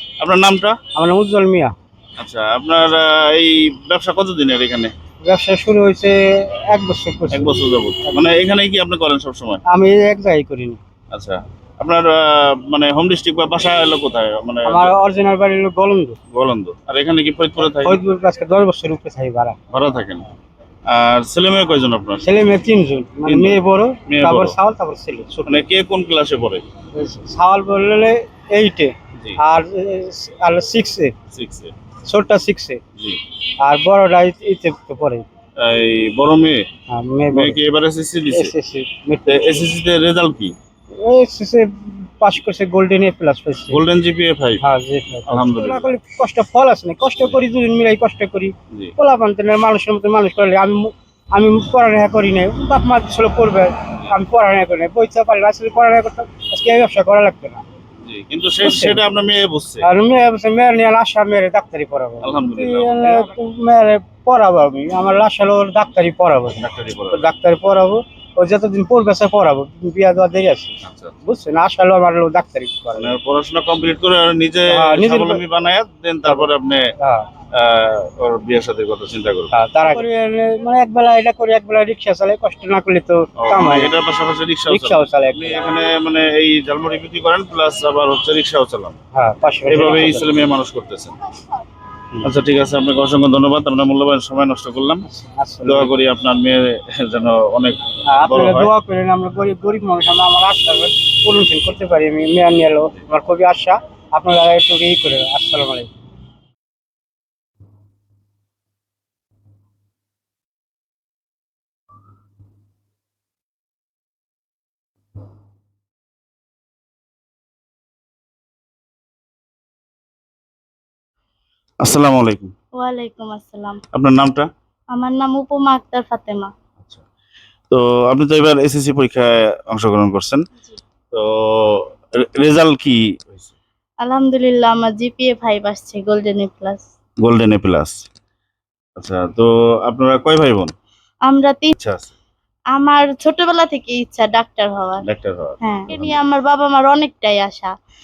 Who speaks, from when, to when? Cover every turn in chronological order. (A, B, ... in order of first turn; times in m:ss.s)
0:00.2-0:00.8 A
0:01.0-0:01.7 B
0:02.2-0:04.9 A
0:05.2-0:07.6 B
0:07.3-0:09.6 A
0:09.7-0:10.8 B
0:11.1-0:14.9 A
0:14.6-0:16.2 B
0:16.3-0:18.0 A
0:17.8-0:19.6 B
0:19.7-0:20.3 A
0:20.9-0:22.2 A
0:22.2-0:25.6 B
0:23.3-0:24.6 A
0:25.5-0:26.6 A
0:27.0-0:31.1 B
0:31.3-0:31.7 A
0:32.1-0:32.8 B
0:33.6-0:35.3 B
0:35.6-0:36.6 A
0:36.9-0:37.6 B
0:37.3-0:38.5 A
0:38.3-0:39.7 B
0:39.3-0:40.6 A
0:41.0-0:43.8 B
0:43.7-0:44.6 A
0:44.6-0:57.6 B
0:45.3-0:45.9 A
0:58.1-0:59.9 A
0:58.6-0:59.0 B
0:59.8-1:13.2 B
1:02.2-1:03.4 A
1:06.6-1:07.3 A
1:10.8-1:11.2 A
1:13.0-1:16.8 A
1:14.7-1:15.4 B
1:16.3-1:17.3 B
1:17.5-1:19.5 A
1:19.5-1:24.0 B
1:23.4-1:29.0 A
1:24.7-1:25.7 B
1:29.2-1:30.3 B
1:29.7-1:31.1 A
1:32.2-1:35.0 A
1:35.1-1:36.0 B
1:35.6-1:38.7 A
1:38.0-1:45.9 B
2:01.8-2:02.5 A
2:02.8-2:03.8 C
2:03.9-2:04.5 A
2:04.9-2:06.5 C
2:07.7-2:10.4 A
2:11.1-2:13.5 A
2:14.0-2:16.8 C
2:17.2-2:17.9 A
2:19.0-2:20.7 A
2:21.2-2:21.7 C
2:21.8-2:22.1 A
2:22.7-2:25.0 C
2:25.0-2:26.2 A
2:25.6-2:27.7 C